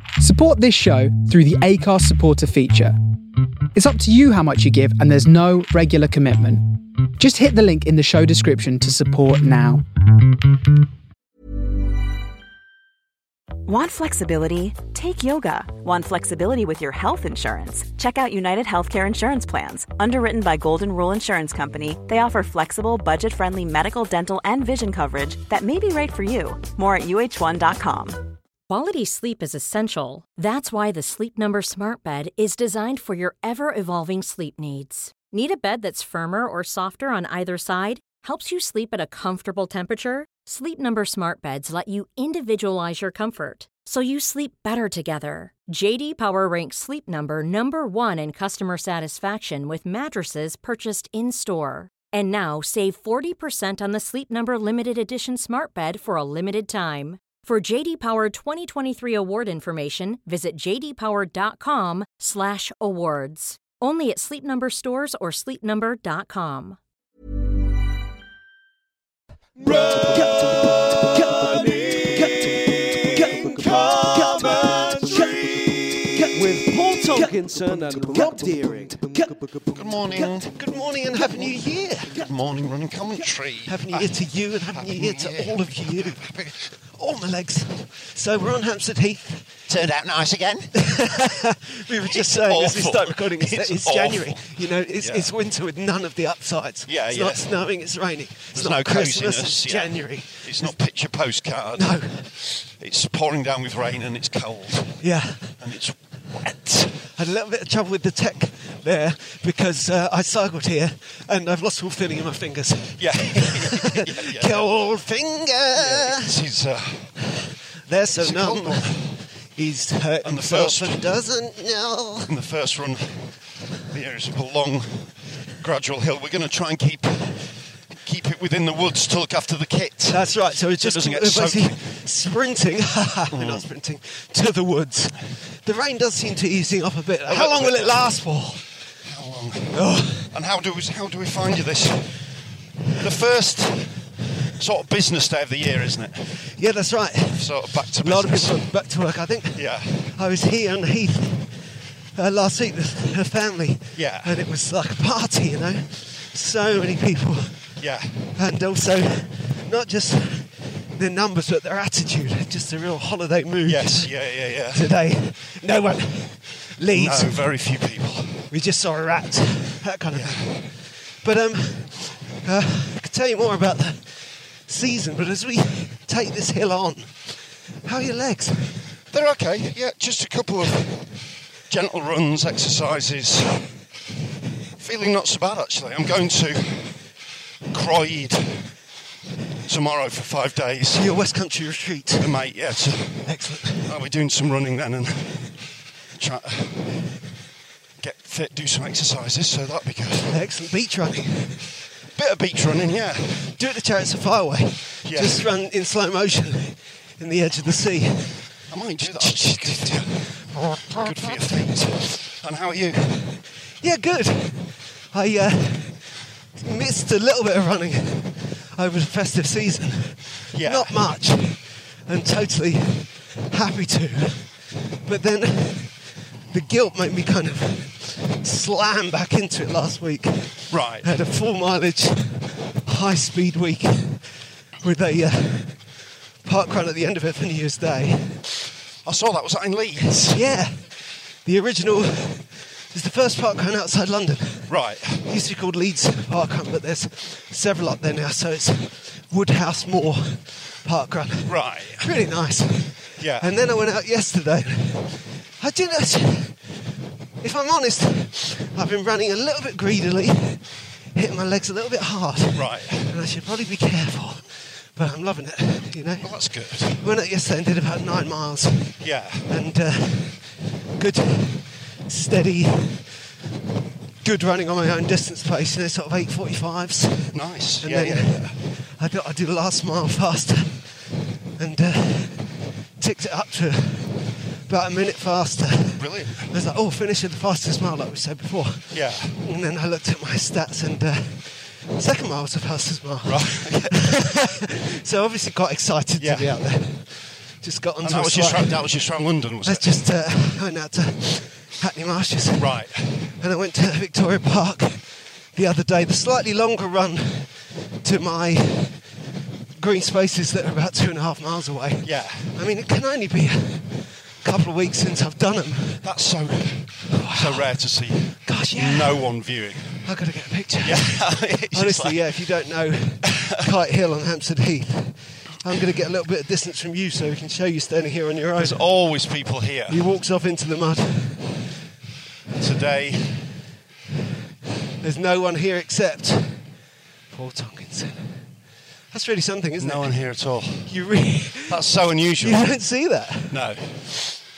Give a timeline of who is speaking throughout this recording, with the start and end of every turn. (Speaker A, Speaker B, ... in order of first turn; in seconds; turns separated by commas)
Speaker A: 0.2-2.9, Speaker A: 3.7-6.6, Speaker A: 7.2-9.8, Speaker B: 13.6-28.3, Speaker C: 28.7-66.8, Speaker D: 69.6-79.5, Speaker E: 79.7-80.6, Speaker D: 80.1-82.1, Speaker E: 82.0-86.7, Speaker D: 83.7-86.3, Speaker D: 86.9-89.5, Speaker E: 89.7-90.8, Speaker D: 90.7-100.8, Speaker E: 92.1-95.3, Speaker E: 96.9-97.5, Speaker E: 98.5-105.0, Speaker D: 101.7-102.3, Speaker D: 105.0-105.6, Speaker E: 105.6-106.9, Speaker D: 106.9-116.3, Speaker E: 113.0-114.7, Speaker E: 115.7-117.2, Speaker D: 117.3-122.3, Speaker E: 118.1-119.1, Speaker E: 120.2-121.1, Speaker E: 122.3-123.3, Speaker E: 123.8-131.8, Speaker D: 130.1-138.6, Speaker E: 133.3-133.7, Speaker E: 137.3-138.1, Speaker E: 139.1-142.2, Speaker D: 139.7-140.3, Speaker E: 142.9-146.4, Speaker D: 146.6-151.6, Speaker E: 147.3-148.7, Speaker E: 149.5-150.1, Speaker D: 152.2-157.7, Speaker E: 153.9-154.3, Speaker E: 157.8-158.3, Speaker D: 158.3-167.4, Speaker E: 163.7-164.8, Speaker E: 166.9-168.5, Speaker D: 168.5-178.8, Speaker E: 170.1-170.5, Speaker E: 179.1-181.0, Speaker E: 181.7-183.7, Speaker E: 184.8-187.0, Speaker E: 187.7-188.7, Speaker E: 189.6-191.1, Speaker D: 190.9-192.3, Speaker E: 192.2-193.3, Speaker D: 193.2-193.9, Speaker E: 193.8-195.5, Speaker E: 196.2-197.0, Speaker E: 198.0-200.4, Speaker D: 200.3-201.7, Speaker E: 202.2-203.6, Speaker D: 203.6-208.5, Speaker E: 205.0-205.5, Speaker E: 208.7-210.3, Speaker D: 209.0-211.5, Speaker E: 210.9-213.4, Speaker D: 213.8-224.5, Speaker E: 220.5-221.1, Speaker D: 225.0-234.2, Speaker E: 230.7-231.1, Speaker D: 234.8-238.4, Speaker E: 239.0-240.4, Speaker D: 240.2-240.9, Speaker D: 241.4-256.6, Speaker E: 244.7-245.3, Speaker E: 251.4-252.1, Speaker E: 253.2-253.5, Speaker D: 257.4-266.3, Speaker E: 262.5-263.1, Speaker E: 266.2-267.1, Speaker D: 266.9-273.1, Speaker E: 269.0-269.5, Speaker D: 274.2-281.0, Speaker E: 277.3-278.6, Speaker D: 281.6-298.8, Speaker E: 286.0-286.5, Speaker E: 288.9-289.4, Speaker E: 293.2-294.2, Speaker E: 296.2-296.5, Speaker E: 298.0-300.0, Speaker D: 299.6-302.7, Speaker E: 302.6-303.3, Speaker D: 303.4-309.0, Speaker D: 309.8-316.0, Speaker E: 312.0-312.6, Speaker E: 316.0-320.1, Speaker D: 317.1-317.7, Speaker D: 318.4-319.3, Speaker D: 320.0-328.9, Speaker E: 320.8-322.2, Speaker E: 323.2-323.6, Speaker E: 328.6-330.0, Speaker D: 329.9-331.6, Speaker E: 332.5-333.5, Speaker D: 335.0-336.6, Speaker D: 337.3-338.4, Speaker D: 339.1-340.2, Speaker E: 339.8-340.9, Speaker D: 340.9-341.8, Speaker E: 341.7-342.7, Speaker D: 342.4-343.6, Speaker E: 343.5-344.3